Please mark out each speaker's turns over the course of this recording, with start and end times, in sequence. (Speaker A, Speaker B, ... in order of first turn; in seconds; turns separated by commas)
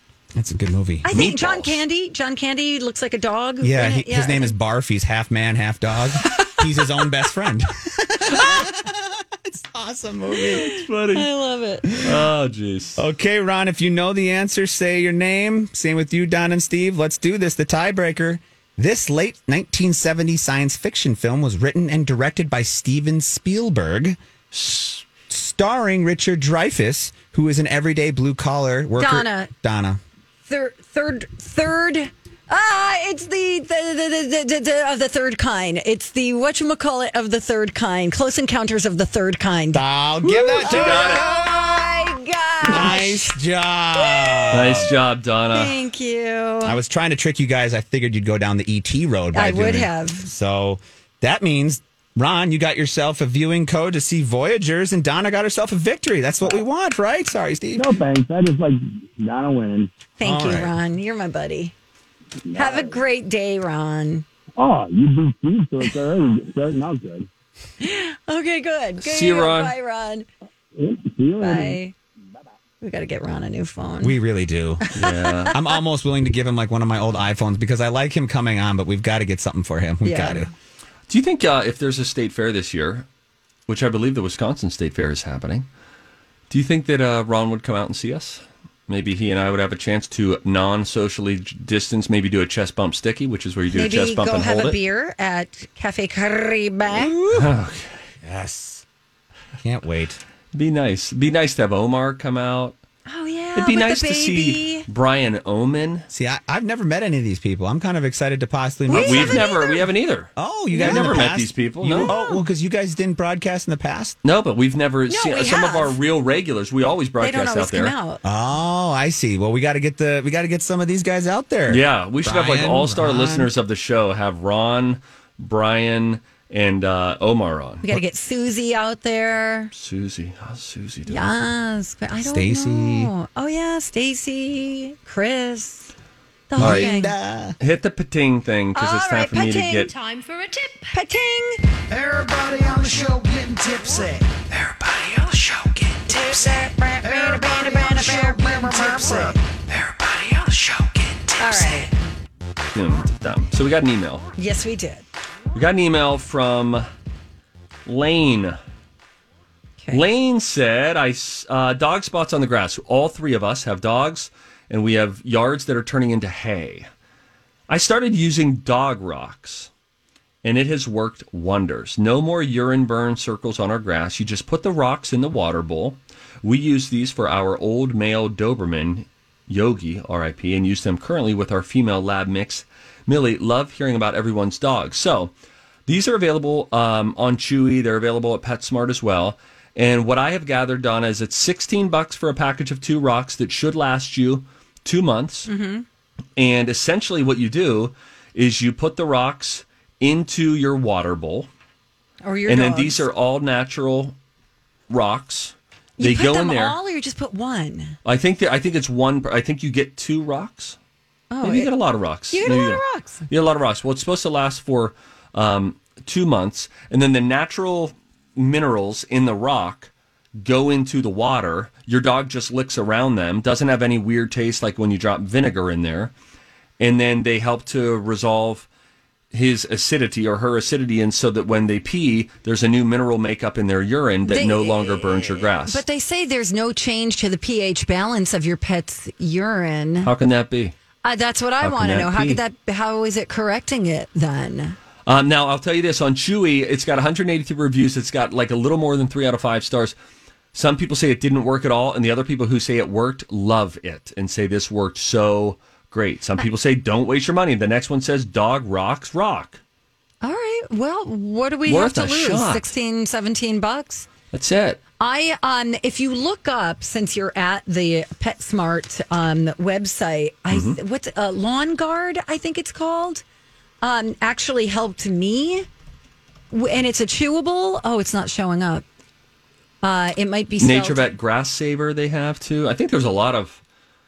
Speaker A: 0.3-1.2, Speaker B: 1.0-4.5, Speaker C: 1.1-1.8, Speaker A: 3.6-10.7, Speaker B: 10.4-12.0, Speaker C: 10.6-11.3, Speaker C: 12.0-13.0, Speaker A: 13.0-24.7, Speaker C: 24.6-24.9, Speaker A: 25.3-30.0, Speaker B: 29.0-29.5, Speaker B: 30.5-43.4, Speaker A: 39.7-41.9, Speaker C: 40.5-41.2, Speaker A: 42.6-44.9, Speaker B: 44.0-44.5, Speaker C: 44.5-45.8, Speaker B: 45.5-46.8, Speaker A: 46.6-58.0, Speaker B: 49.3-50.3, Speaker D: 57.8-59.9, Speaker B: 60.2-61.7, Speaker A: 60.2-60.7, Speaker D: 62.5-63.0, Speaker B: 62.5-64.2, Speaker D: 64.6-67.3, Speaker B: 67.8-70.3, Speaker C: 69.0-69.7, Speaker D: 70.8-71.8, Speaker B: 71.4-71.9, Speaker B: 72.8-74.2, Speaker A: 74.0-74.9, Speaker B: 74.9-75.4, Speaker C: 75.0-75.5, Speaker A: 75.5-80.5, Speaker B: 80.0-80.5, Speaker C: 81.1-83.1, Speaker C: 83.7-85.7, Speaker C: 86.5-94.8, Speaker B: 93.7-97.1, Speaker A: 97.2-97.5, Speaker C: 97.3-97.9, Speaker A: 98.2-98.8, Speaker A: 99.6-100.2, Speaker C: 100.5-102.8, Speaker B: 103.1-104.9, Speaker C: 103.5-106.1, Speaker A: 106.1-109.5, Speaker B: 108.9-109.9, Speaker C: 109.0-112.1, Speaker A: 110.4-114.2, Speaker B: 110.7-111.2, Speaker B: 112.0-112.5, Speaker C: 114.2-118.0, Speaker B: 115.1-116.0, Speaker B: 117.2-118.2, Speaker A: 118.2-123.5, Speaker C: 121.7-127.8, Speaker B: 127.8-129.7, Speaker C: 129.7-131.3, Speaker B: 131.1-135.9, Speaker A: 132.2-133.1, Speaker B: 136.5-137.1, Speaker A: 136.6-137.6, Speaker C: 136.6-136.9, Speaker C: 137.6-139.9, Speaker B: 138.8-140.1, Speaker B: 140.9-141.6, Speaker E: 141.9-151.9, Speaker B: 146.1-149.4, Speaker B: 151.4-151.9, Speaker C: 152.7-154.3, Speaker B: 154.4-155.0, Speaker C: 155.5-156.8, Speaker C: 157.9-158.6, Speaker C: 159.9-166.9, Speaker C: 167.7-169.7, Speaker C: 170.4-185.3, Speaker C: 185.9-195.5, Speaker B: 195.5-195.8, Speaker C: 196.4-201.5, Speaker B: 202.2-203.1, Speaker C: 202.5-204.2, Speaker C: 204.9-206.8, Speaker B: 206.0-208.0, Speaker C: 208.1-210.8, Speaker B: 211.3-211.7, Speaker C: 211.4-219.9, Speaker B: 212.3-213.2, Speaker C: 220.4-226.1, Speaker C: 226.8-228.7, Speaker C: 229.3-235.8, Speaker B: 234.3-240.1, Speaker C: 240.0-240.8, Speaker B: 241.0-244.8, Speaker C: 241.6-242.4, Speaker C: 245.1-249.9, Speaker C: 250.5-259.6, Speaker B: 260.2-264.1, Speaker C: 261.7-262.7, Speaker C: 264.3-264.8, Speaker B: 265.0-273.2, Speaker C: 270.5-270.8, Speaker B: 273.8-275.7, Speaker B: 276.5-278.8, Speaker B: 279.8-281.1, Speaker C: 280.6-283.6